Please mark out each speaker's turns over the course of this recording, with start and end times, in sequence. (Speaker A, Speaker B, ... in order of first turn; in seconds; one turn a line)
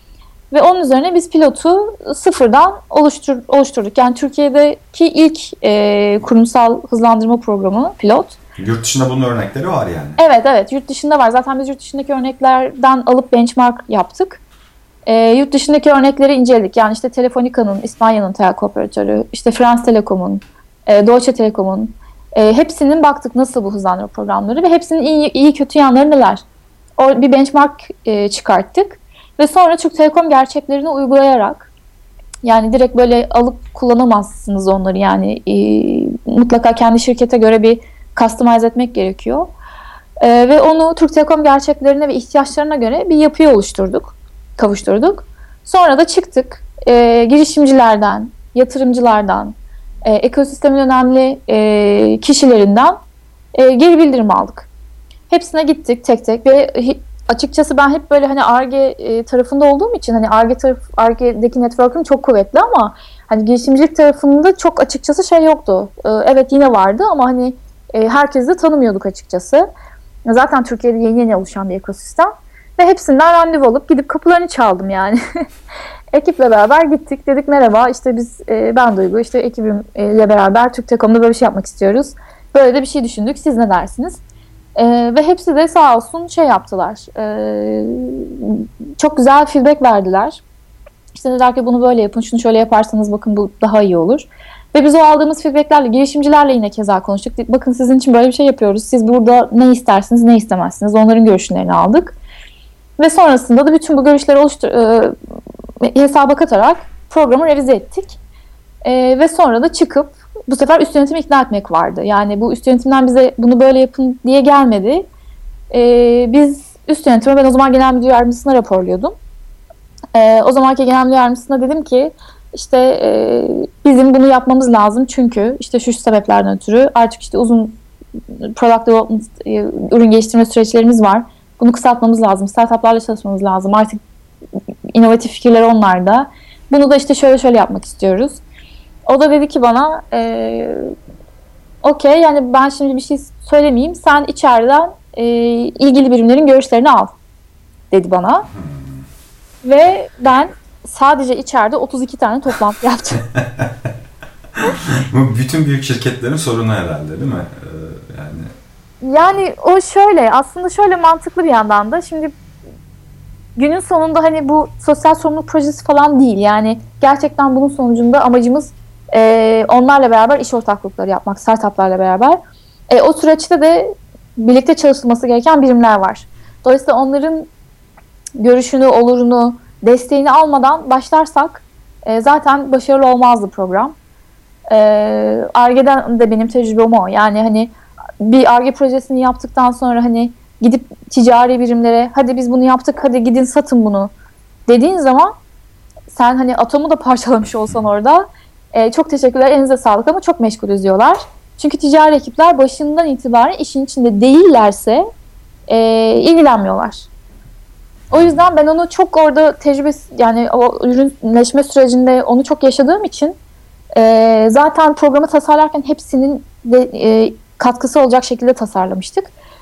Speaker A: 0.5-8.4
Speaker B: 8.6-10.2
Speaker A: 10.2-14.4
Speaker A: 15.1-26.4
Speaker A: 27.0-31.7
Speaker A: 32.4-39.5
Speaker A: 40.2-53.0
Speaker A: 53.5-54.7
Speaker A: 55.3-69.7
Speaker A: 70.3-75.2
Speaker A: 76.1-84.2
Speaker A: 84.8-90.4
Speaker A: 91.2-102.2
Speaker A: 103.0-105.1
Speaker A: 105.8-108.2
Speaker A: 108.8-115.1
Speaker A: 115.7-119.2
Speaker A: 120.1-127.8
Speaker A: 128.4-134.0
Speaker A: 134.9-138.4
Speaker A: 139.1-140.8
Speaker A: 141.8-147.1
Speaker A: 147.9-148.5
Speaker B: 148.5-149.0
Speaker A: 149.6-153.2
Speaker B: 153.3-153.7
Speaker B: 154.6-158.5
Speaker A: 159.0-162.3
Speaker A: 163.6-177.5
Speaker A: 178.4-184.0
Speaker A: 184.7-194.1
Speaker A: 194.7-195.3
Speaker A: 196.1-205.1
Speaker A: 205.7-207.1
Speaker B: 208.1-208.4
Speaker A: 208.1-213.4
Speaker A: 213.9-219.3